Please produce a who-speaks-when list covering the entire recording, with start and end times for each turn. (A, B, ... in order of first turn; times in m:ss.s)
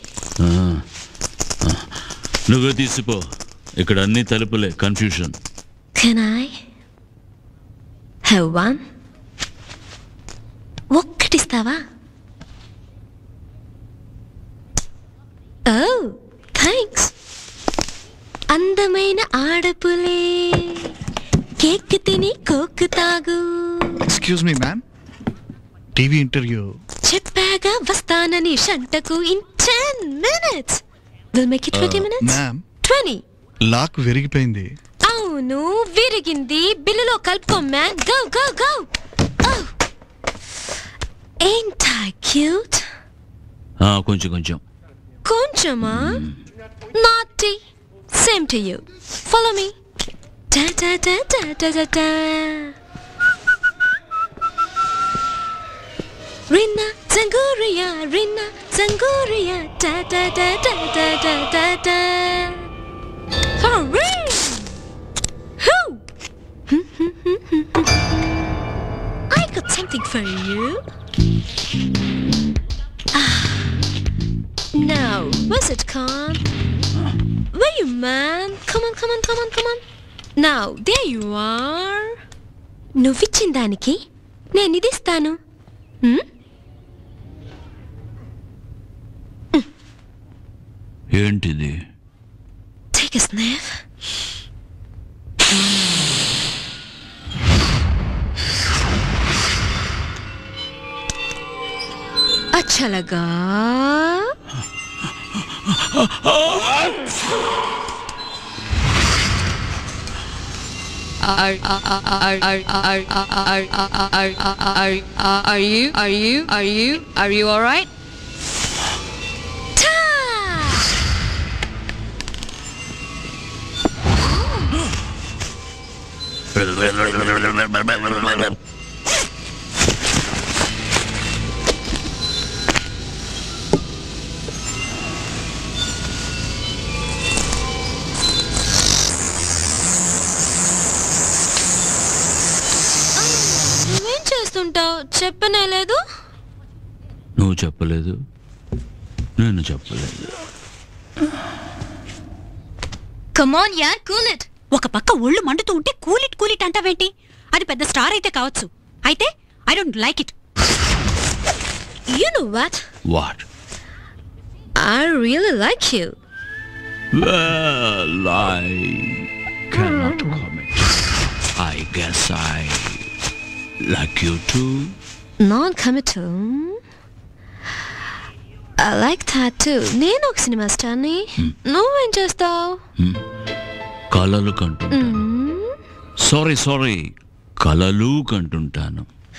0:00.4-0:00.8 A
0:02.5-0:03.2 A
0:03.8-0:05.3 A
0:06.0-0:06.6 B
0:08.3-0:08.8 B
0:10.9-0:11.8 B
0:15.7-0:17.1 B
0:18.5-0:20.9 B
0:21.6-0:24.0 B
0:24.1-0:24.8 C
0:26.0-0:26.7 C
0:27.1-0:30.8 B
0:31.3-0:33.2 B
0:31.7-0:32.6 C
0:33.7-0:34.7 C
0:35.0-0:38.9 B
0:39.4-0:39.7 B
0:41.4-0:42.8 B
0:43.8-0:44.6 A
0:45.2-0:46.2 B
0:45.9-0:46.3 A
0:46.9-0:47.6 B
0:48.1-0:49.8 B
0:50.5-0:52.7 B
0:56.5-1:02.7 B
1:03.6-1:04.7 B
1:05.6-1:06.0 B
1:06.7-1:07.9 B
1:09.3-1:10.8 B
1:13.1-1:13.8 B
1:14.7-1:16.5 B
1:17.5-1:19.8 B
1:20.4-1:22.2 B
1:23.0-1:24.0 B
1:24.5-1:25.4 B
1:31.1-1:31.7 A
1:32.9-1:33.8 B
1:42.5-1:44.3 B
1:45.9-1:46.9 A
1:51.2-1:57.9 D
1:59.8-2:00.9 B
2:04.2-2:04.7 B
2:06.6-2:08.6 A
2:23.2-2:26.0 B
2:27.4-2:28.1 A
2:29.4-2:30.3 A
2:33.4-2:34.5 B
2:34.7-2:40.3 E
2:42.1-2:42.8 B
2:43.1-2:43.4 A
2:44.8-2:46.1 B
2:47.2-2:50.9 A
2:51.6-2:53.0 A
2:53.9-2:54.9 A
2:55.4-2:56.8 B
2:58.8-3:02.8 B
3:04.1-3:05.2 A
3:04.9-3:05.8 B
3:06.3-3:07.0 A
3:07.6-3:09.1 A